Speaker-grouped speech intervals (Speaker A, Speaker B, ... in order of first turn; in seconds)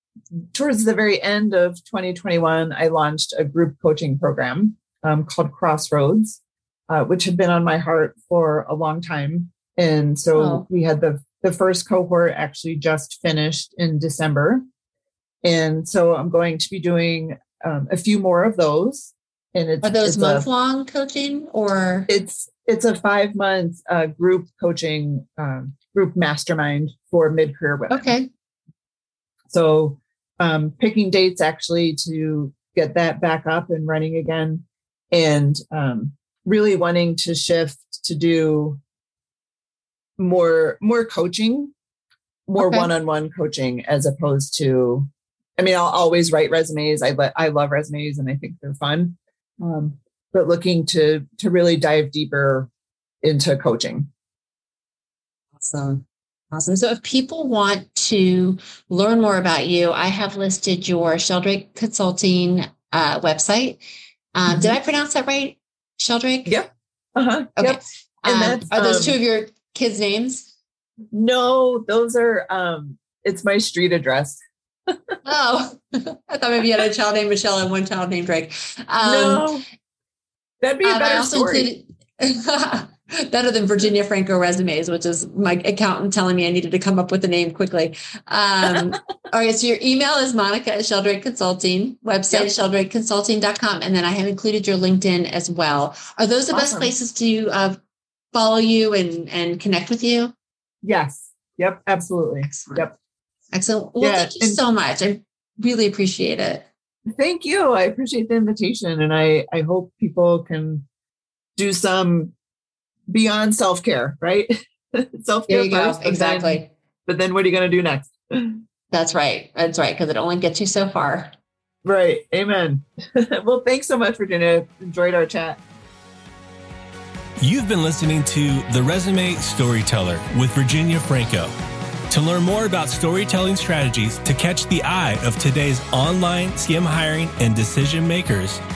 Speaker A: 0.5-14.6, 15.4-20.5, 22.1-28.1, 29.5-38.8, 40.2-41.7, 42.5-52.7, 53.2-54.1, 64.5-64.8, 66.5-69.2, 71.1-75.2, 79.0-79.6, 80.6-81.7, 96.5-96.9, 100.8-102.9, 104.0-104.6, 107.2-110.9, 111.6-112.3, 113.1-118.6, 121.8-125.6
Speaker B: 10.3-10.7, 19.8-22.1, 27.9-28.3, 42.6-42.9, 55.6-63.8, 64.3-66.5, 67.6-70.5, 75.2-79.5, 80.8-97.8, 98.3-100.3, 102.4-102.9, 103.5-106.7, 115.5-116.7, 118.9-121.3
Speaker C: 127.4-131.5, 132.1-138.6